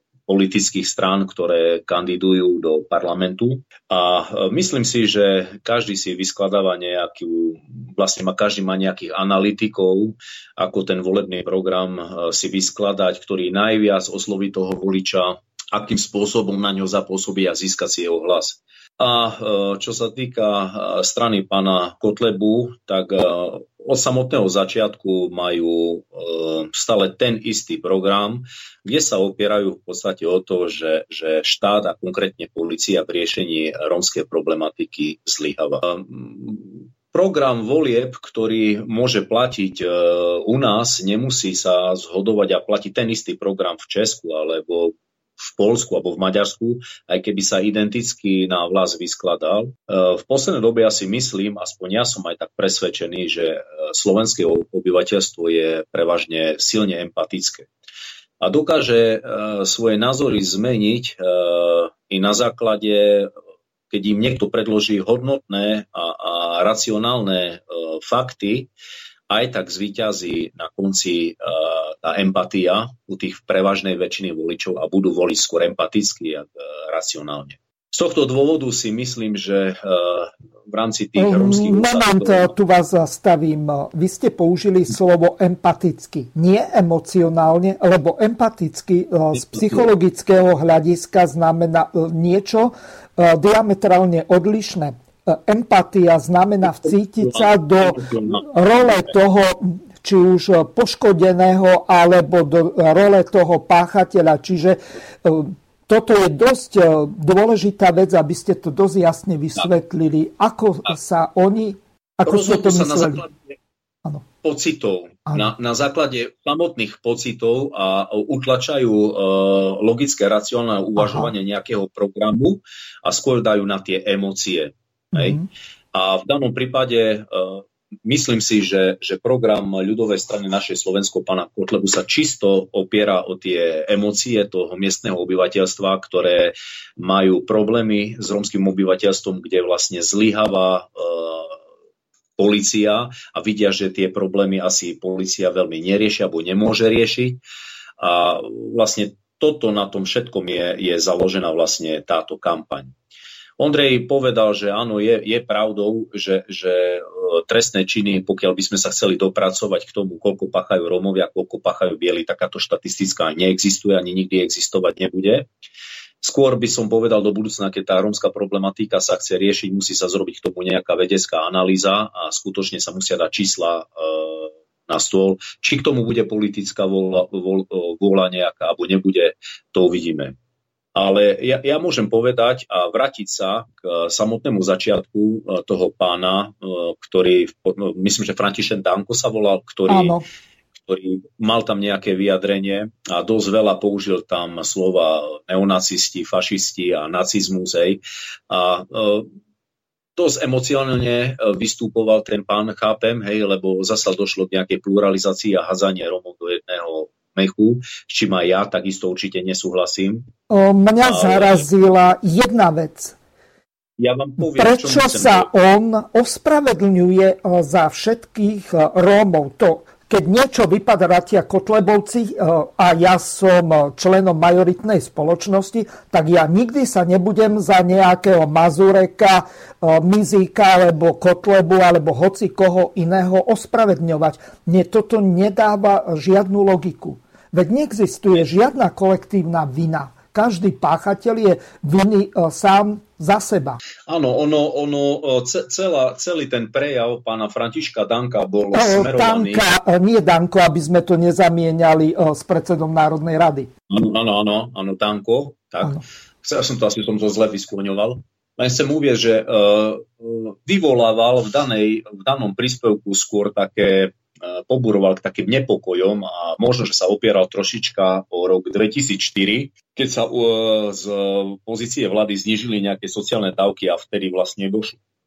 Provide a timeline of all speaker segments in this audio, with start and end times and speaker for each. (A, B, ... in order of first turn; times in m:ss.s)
0:00.3-0:57.7 A
0:58.4-1:03.3 A
1:03.9-1:08.7 A
1:09.3-1:22.5 A
1:21.2-1:53.2 B
1:37.2-1:39.1 A
1:52.2-1:53.3 A
1:54.4-2:05.4 A
2:01.0-2:01.3 B
2:05.1-2:05.5 B
2:05.9-2:21.6 A
2:22.4-2:27.4 A
2:28.0-2:32.9 A
2:33.6-2:45.5 A
2:46.2-3:00.3 A
3:00.9-3:10.2 A
3:09.9-3:10.2 B
3:10.8-3:19.3 A
3:20.2-3:30.3 A
3:30.5-3:33.2 B
3:31.0-3:31.6 A
3:34.0-3:35.5 A
3:34.4-4:03.8 B
4:04.1-4:09.6 A
4:08.7-4:13.7 B
4:13.9-4:35.0 A